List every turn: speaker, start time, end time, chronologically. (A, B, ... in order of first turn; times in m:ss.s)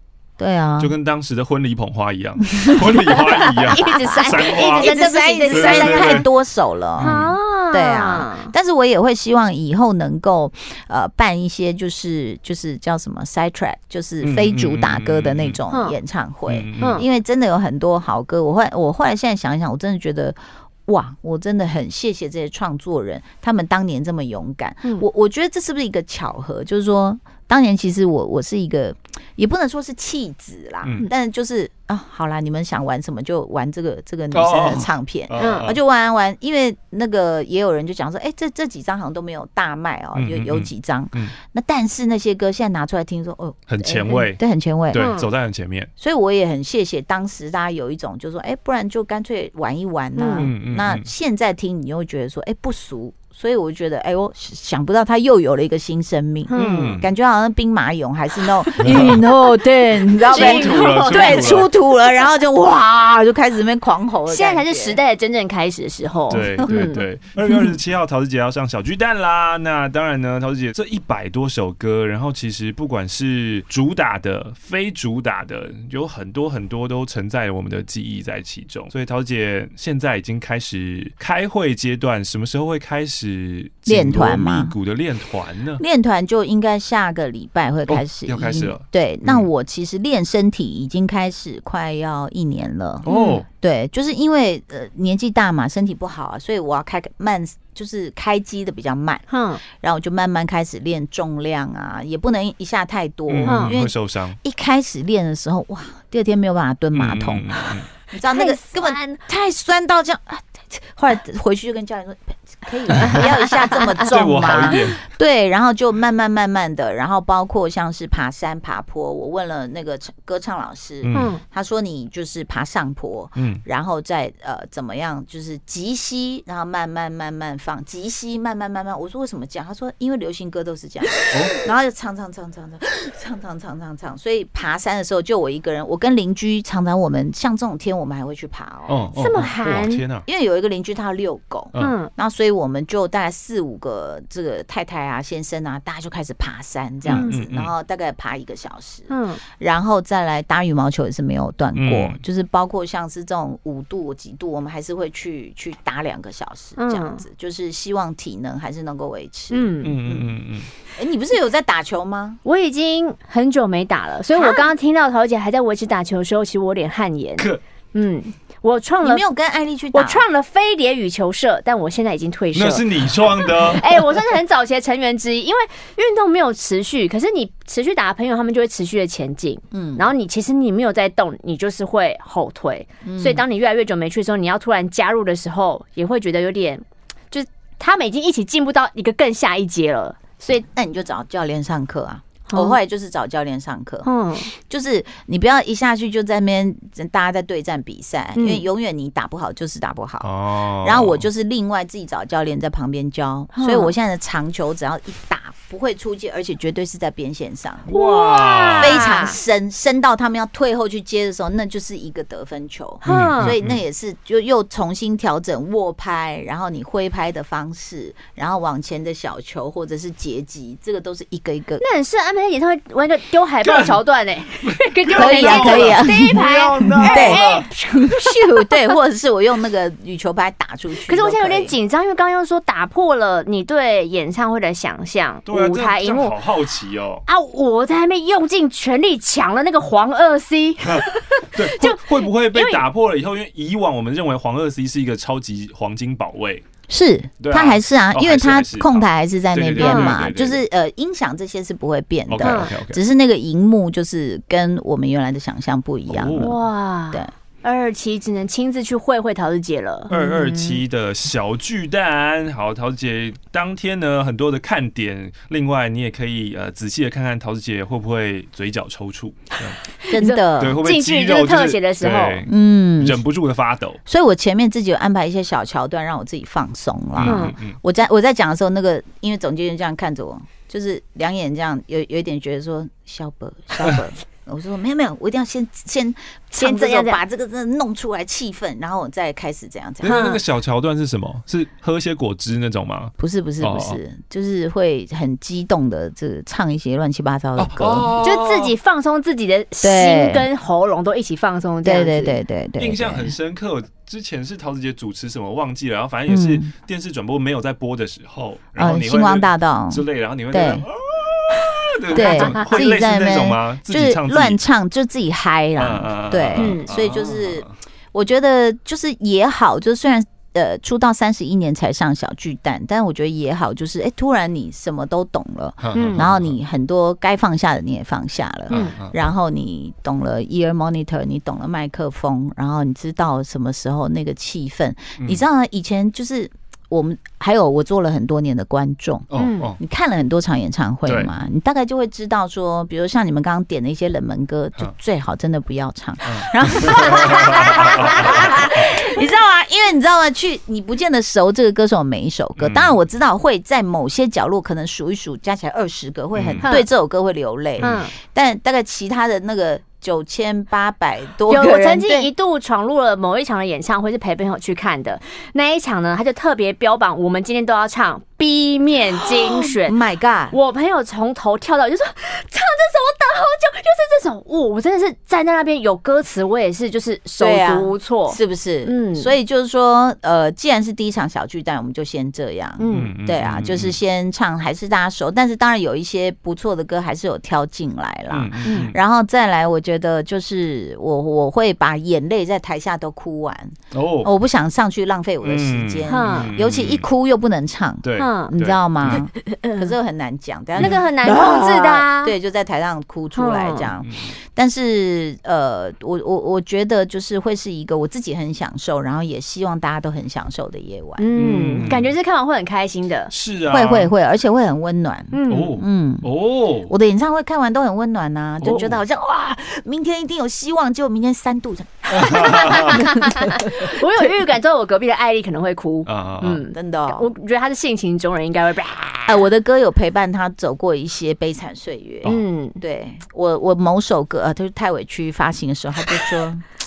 0:00.4-0:00.9 A
0:00.8-0:05.0 B
0:02.6-0:07.2 A
0:03.1-0:06.2 C
0:05.5-0:06.3 B
0:07.0-0:07.4 B
0:07.0-0:08.5 C
0:07.7-0:45.1 A
0:14.2-0:15.6 B
0:16.5-0:17.0 B
0:16.8-0:17.0 C
0:34.3-0:35.8 B
0:35.4-0:35.7 C
0:40.2-0:41.3 B
0:43.7-0:45.9 B
0:44.9-0:45.3 C
0:46.0-1:05.0 A
0:50.2-0:50.5 C
0:50.4-0:51.1 B
0:56.5-0:57.0 C
0:56.5-0:57.1 B
0:58.8-0:59.2 B
1:00.2-1:01.7 C
1:00.3-1:01.7 B
1:04.3-1:07.0 C
1:06.3-1:25.8 B
1:23.9-1:24.7 A
1:25.8-1:33.1 A
1:27.9-1:29.5 B
1:33.0-1:33.4 B
1:33.1-1:33.4 C
1:33.6-2:19.0 A
1:39.3-1:39.6 C
1:43.3-1:44.4 B
1:43.5-1:43.7 C
1:46.9-1:47.9 B
1:48.2-1:49.2 C
1:52.9-1:53.2 B
1:53.0-1:53.4 C
1:54.0-1:55.0 B
2:01.0-2:01.4 B
2:01.1-2:01.4 C
2:03.4-2:03.6 B
2:11.3-2:11.6 B
2:18.9-2:20.2 B
2:19.2-2:20.0 C
2:20.2-2:40.4 A
2:21.8-2:22.1 C
2:27.0-2:27.7 B
2:29.1-2:29.4 C
2:31.7-2:32.2 B
2:36.8-2:37.2 C
2:39.5-2:40.0 C
2:39.8-2:40.7 B
2:40.9-2:42.4 A
2:42.4-2:49.2 C
2:44.4-2:44.7 A
2:49.0-2:50.2 A
2:49.9-3:10.6 C
2:52.5-2:53.8 B
2:59.7-3:00.1 A
3:03.0-3:03.4 A
3:10.6-3:20.3 A
3:12.5-3:12.8 C
3:14.0-3:14.5 C
3:18.4-3:18.6 C
3:20.2-3:21.2 B
3:20.8-3:27.9 A
3:23.5-3:23.9 C
3:27.9-3:29.0 B
3:27.9-3:29.4 C
3:28.8-3:41.8 A
3:33.0-3:33.5 C
3:33.0-3:33.8 B
3:41.8-3:48.7 C
3:43.6-3:44.0 B
3:44.6-3:47.7 B
3:45.1-3:46.4 A
3:47.0-3:51.7 A
3:51.1-3:56.4 C
3:55.5-3:57.2 B
3:57.3-4:02.8 C
4:00.8-4:06.6 B
4:06.9-4:16.6 A
4:07.4-4:10.6 B
4:09.8-4:10.2 C
4:12.3-4:13.0 B
4:12.4-4:12.7 C
4:16.1-4:16.6 B
4:16.4-4:20.8 C
4:20.1-4:29.8 B
4:29.6-4:32.5 C
4:30.1-4:30.8 A
4:30.6-4:34.0 B
4:32.5-4:33.2 A
4:34.0-4:50.2 A
4:37.2-4:37.8 B
4:37.2-4:37.6 C
4:46.5-4:47.2 C
4:50.0-4:54.0 B
4:50.0-4:50.4 C
4:53.2-4:58.1 A
4:57.6-4:58.7 B
4:58.2-5:02.4 C
4:59.8-5:00.4 A
5:01.8-5:03.3 A
5:02.8-5:14.6 B
5:06.3-5:06.7 A
5:08.8-5:10.9 A
5:12.1-6:02.3 A
5:12.2-5:12.7 C
5:15.8-5:17.7 B
5:16.6-5:16.9 C
5:25.8-5:26.6 B
5:25.9-5:26.2 C
5:28.7-5:29.0 C
5:28.7-5:29.2 B
5:35.2-5:35.4 B
5:39.3-5:39.8 B
5:39.4-5:39.7 C
5:46.2-5:48.9 B
5:52.6-5:53.0 B
5:56.4-5:56.7 B
5:56.6-5:56.9 C
5:57.8-5:58.1 B
5:57.8-5:58.1 C
6:01.5-6:09.9 C
6:09.3-6:10.6 A
6:10.5-6:19.3 C
6:17.4-6:51.2 A
6:22.8-6:23.1 C
6:22.9-6:24.0 B
6:28.3-6:29.0 B
6:28.6-6:28.9 C
6:33.9-6:34.3 B
6:35.4-6:37.1 B
6:36.0-6:36.5 C
6:38.0-6:39.3 B
6:38.2-6:38.5 C
6:39.0-6:39.9 C
6:40.8-6:42.4 C
6:43.4-6:43.9 C
6:44.0-6:44.3 B
6:51.2-6:53.3 C
6:51.4-6:52.1 B
6:53.3-6:54.1 B
6:53.7-6:56.3 A
6:55.3-6:55.8 C
6:55.5-6:56.9 B
6:56.9-7:04.0 A
6:58.6-6:59.0 B
7:02.1-7:03.1 B
7:02.2-7:09.4 C
7:06.0-7:06.6 B
7:06.7-7:07.3 A
7:09.2-7:16.6 A
7:12.2-7:12.8 C